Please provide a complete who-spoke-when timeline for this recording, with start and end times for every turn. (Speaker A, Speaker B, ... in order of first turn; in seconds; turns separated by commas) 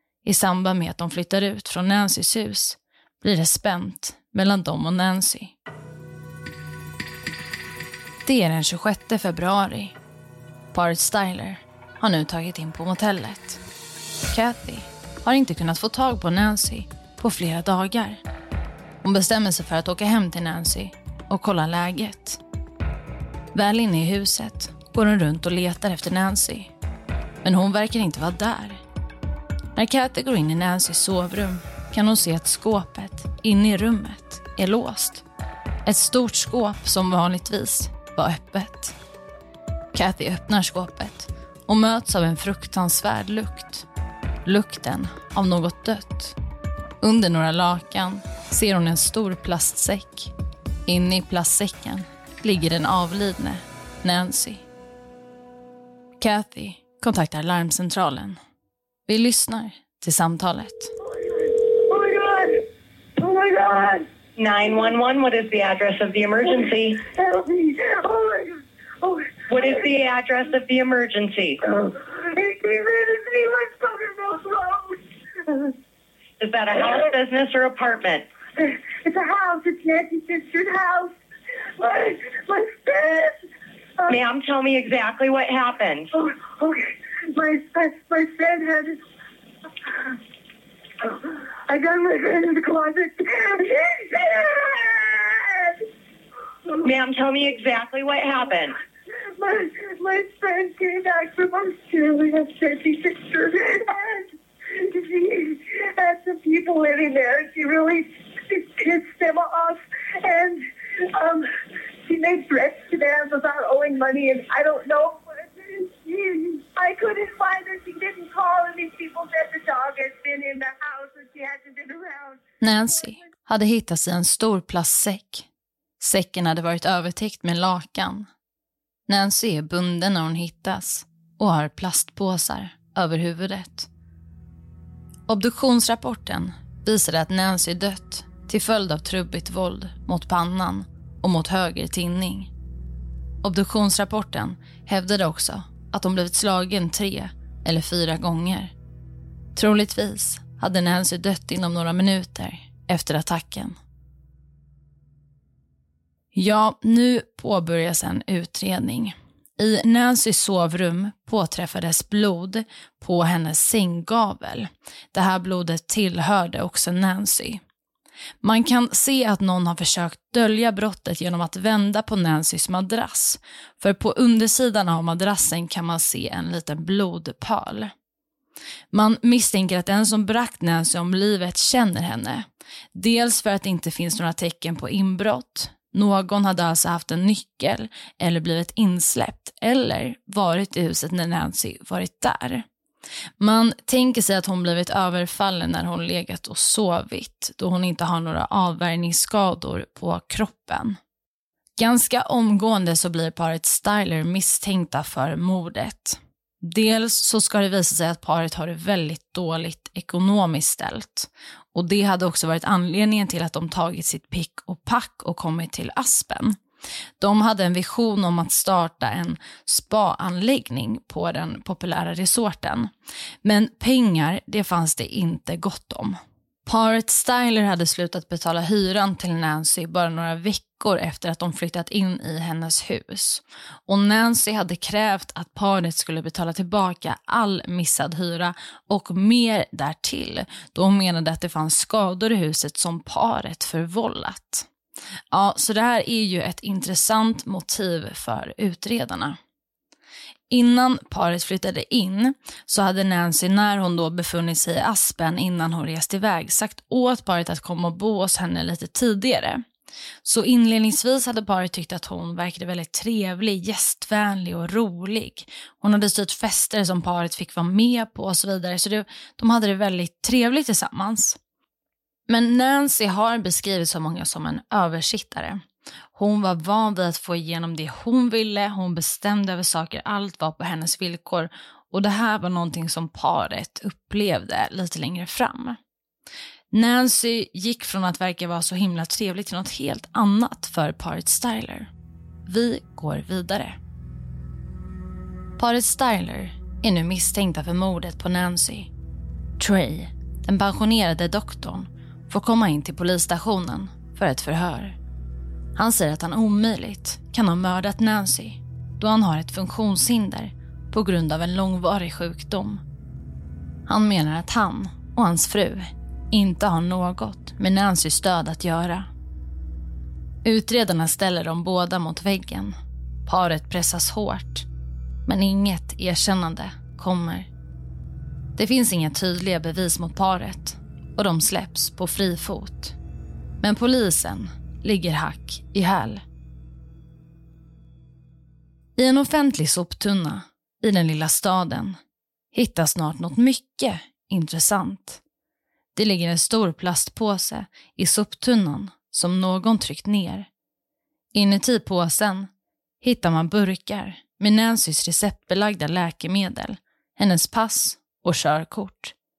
Speaker A: 0.2-5.5, Speaker A: 8.2-9.9, Speaker A: 10.7-13.6, Speaker A: 14.3-18.2, Speaker A: 19.0-22.4, Speaker A: 23.5-26.7, Speaker A: 27.4-28.8, Speaker A: 29.8-35.2, Speaker A: 35.9-39.0, Speaker A: 39.9-43.9, Speaker A: 44.5-46.4, Speaker A: 47.0-50.3, Speaker A: 50.9-54.6, Speaker A: 56.2-58.4, Speaker A: 59.1-60.9, Speaker B: 61.1-62.6, Speaker B: 63.2-64.1, Speaker C: 64.4-67.0, Speaker B: 67.1-69.4, Speaker C: 69.5-71.6, Speaker B: 72.1-75.0, Speaker C: 76.4-78.2, Speaker B: 78.6-81.1, Speaker B: 81.8-83.4, Speaker C: 84.1-86.1, Speaker B: 86.2-89.0, Speaker B: 91.0-95.8, Speaker C: 96.8-98.7, Speaker B: 99.4-111.5, Speaker B: 112.0-122.4, Speaker A: 122.6-125.5, Speaker A: 126.0-128.3, Speaker A: 129.1-133.9, Speaker A: 135.3-142.5, Speaker A: 143.4-148.7, Speaker A: 149.6-153.8, Speaker A: 156.3-167.6, Speaker A: 168.4-177.9, Speaker A: 178.9-192.6, Speaker A: 193.4-201.0, Speaker A: 201.8-216.6, Speaker A: 217.2-222.9, Speaker A: 223.4-244.7, Speaker A: 245.3-249.4, Speaker A: 250.5-259.6, Speaker A: 260.2-271.4, Speaker A: 272.3-275.6, Speaker A: 276.1-285.8, Speaker A: 286.7-291.9, Speaker A: 292.5-293.8, Speaker A: 295.6-298.9, Speaker A: 299.6-305.0, Speaker A: 305.8-312.8, Speaker A: 313.9-319.1, Speaker A: 320.4-324.6, Speaker A: 325.2-327.5, Speaker A: 328.6-332.9, Speaker A: 333.6-336.2, Speaker A: 338.9-342.0, Speaker A: 342.5-345.2, Speaker A: 345.9-350.5, Speaker A: 351.3-352.5, Speaker A: 353.0-359.1